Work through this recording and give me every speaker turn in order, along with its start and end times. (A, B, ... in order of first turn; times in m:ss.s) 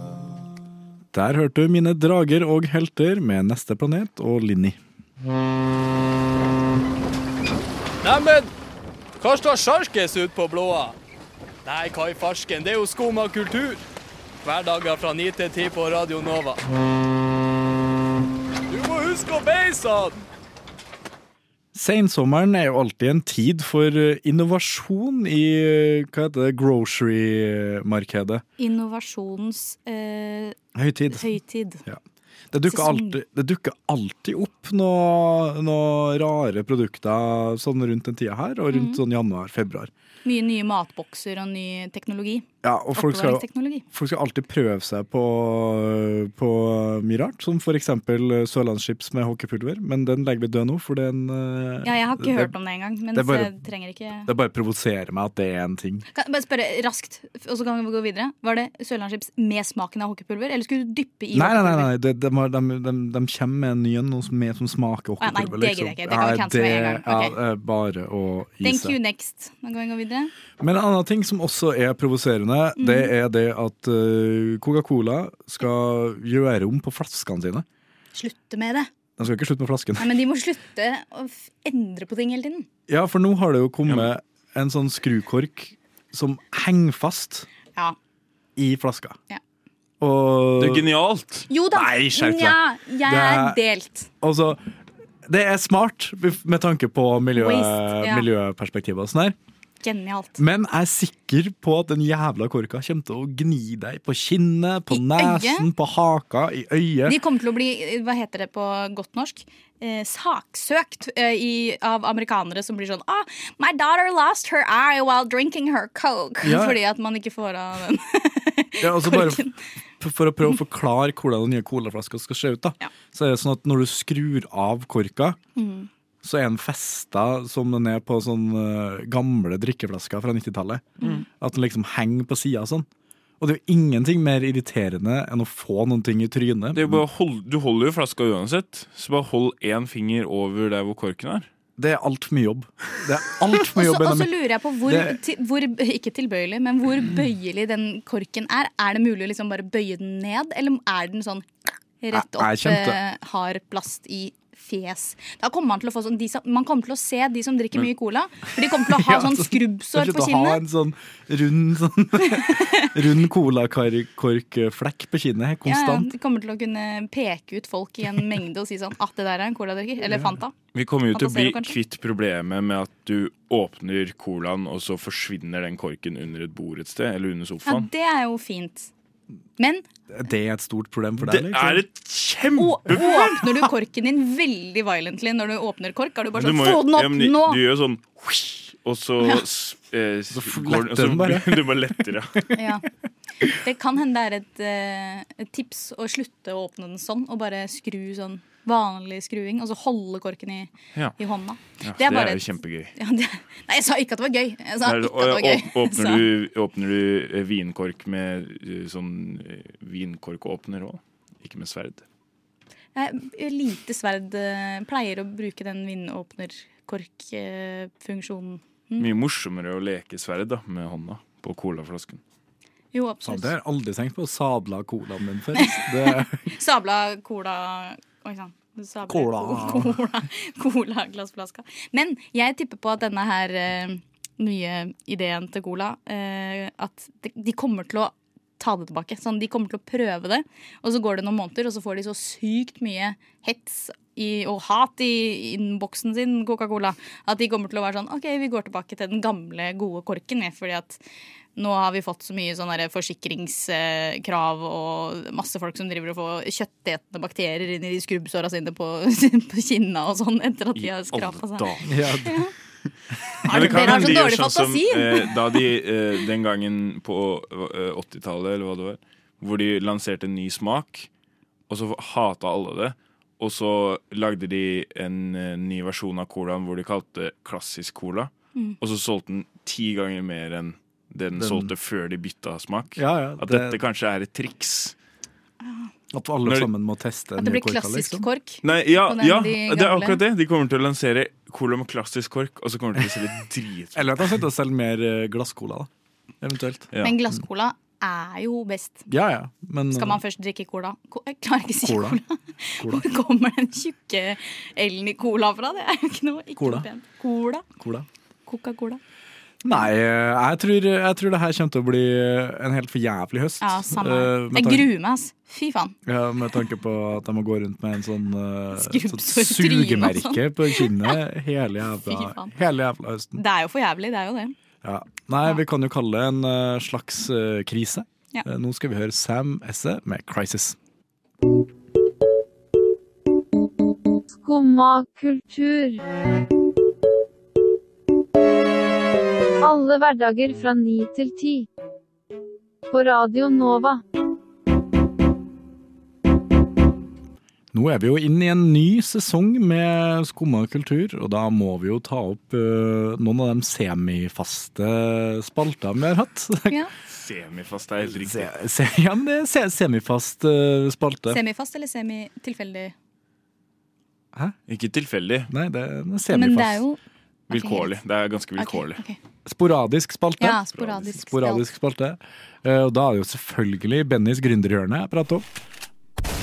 0:01.1-0:04.8 A
0:08.0-0:08.5 B
0:09.2-0:11.0 B
0:11.6-0:13.8 B
0:14.4-0:16.6 B
0:18.7-0:20.2 B
0:21.7-0:28.4 A
0:28.6-0:30.6 C
0:30.7-0:31.3 A
0:31.1-0:31.8 C
0:32.5-0:39.9 A
0:32.7-0:33.2 C
0:38.7-0:39.0 C
0:40.2-0:43.8 C
0:42.6-0:52.5 A
0:51.8-0:54.3 C
0:53.1-0:53.5 A
0:54.3-0:56.0 A
0:56.1-1:01.9 C
1:01.3-1:08.9 A
1:05.2-1:07.4 C
1:08.6-1:10.3 C
1:10.6-1:17.6 A
1:12.8-1:13.1 C
1:18.1-1:18.9 C
1:19.2-1:20.1 A
1:20.0-1:22.7 C
1:22.9-1:27.5 A
1:28.6-1:29.2 A
1:30.0-1:30.9 A
1:30.6-1:31.5 D
1:31.5-1:34.1 C
1:31.7-1:33.6 A
1:34.2-1:34.6 A
1:35.2-1:39.4 A
1:37.3-1:38.3 C
1:39.8-1:40.4 C
1:40.4-1:47.2 A
1:44.9-1:45.7 C
1:47.0-1:59.5 C
1:56.4-1:56.8 A
1:58.8-1:59.4 A
2:00.0-2:05.4 A
2:05.6-2:05.9 C
2:06.2-2:12.9 A
2:13.4-2:17.0 A
2:16.7-2:21.5 D
2:21.8-2:24.3 A
2:23.7-2:31.5 C
2:24.8-2:25.2 A
2:32.0-2:40.6 C
2:32.1-2:33.0 A
2:38.8-2:46.1 A
2:42.3-2:42.9 C
2:45.7-2:50.5 C
2:50.1-2:50.4 A
2:50.7-2:57.9 D
2:51.1-2:51.8 C
2:57.6-2:58.9 C
2:59.6-2:59.8 C
3:00.1-3:01.8 A
3:01.2-3:03.3 D
3:02.6-3:07.6 C
3:06.3-3:12.4 D
3:10.3-3:12.0 A
3:12.5-3:12.8 C
3:13.4-3:26.3 C
3:21.8-3:22.9 D
3:24.8-3:32.0 D
3:32.9-3:39.1 C
3:39.0-3:42.2 D
3:42.9-3:43.5 C
3:43.2-3:46.4 A
3:45.6-4:11.0 C
3:49.1-3:49.9 A
4:11.6-4:22.5 C
4:20.8-4:21.9 D
4:21.8-4:22.4 A
4:23.4-4:25.4 C
4:23.4-4:31.1 D
4:23.5-4:24.2 A
4:31.7-4:44.9 D
4:41.4-4:41.7 A
4:43.0-4:43.8 A
4:45.6-4:45.9 C
4:46.1-4:48.2 A
4:47.4-4:50.2 C
4:48.6-4:54.2 D
4:53.9-4:55.9 A
4:56.4-4:56.9 A
4:57.0-4:59.1 C
4:59.1-5:00.2 A
4:59.9-5:07.6 C
5:01.8-5:02.2 A
5:06.6-5:06.8 A
5:07.8-5:08.0 A
5:08.5-5:09.0 C
5:09.6-5:14.9 A
5:13.6-5:16.0 C
5:16.0-5:23.4 A
5:18.7-5:21.2 C
5:22.1-5:22.5 C
5:23.4-5:24.5 C
5:24.8-5:30.8 A
5:34.4-5:36.0 E
5:39.6-5:41.7 E
5:42.9-5:44.0 E
5:47.7-5:56.8 A
5:57.1-5:58.5 D
5:58.1-6:01.4 A
6:01.3-6:02.9 C
6:04.7-6:05.5 D
6:05.5-6:06.8 A
6:06.3-6:07.0 C
6:07.5-6:09.0 D
6:07.5-6:07.9 C
6:08.6-6:09.2 C
6:09.4-6:15.5 A
6:10.4-6:11.7 C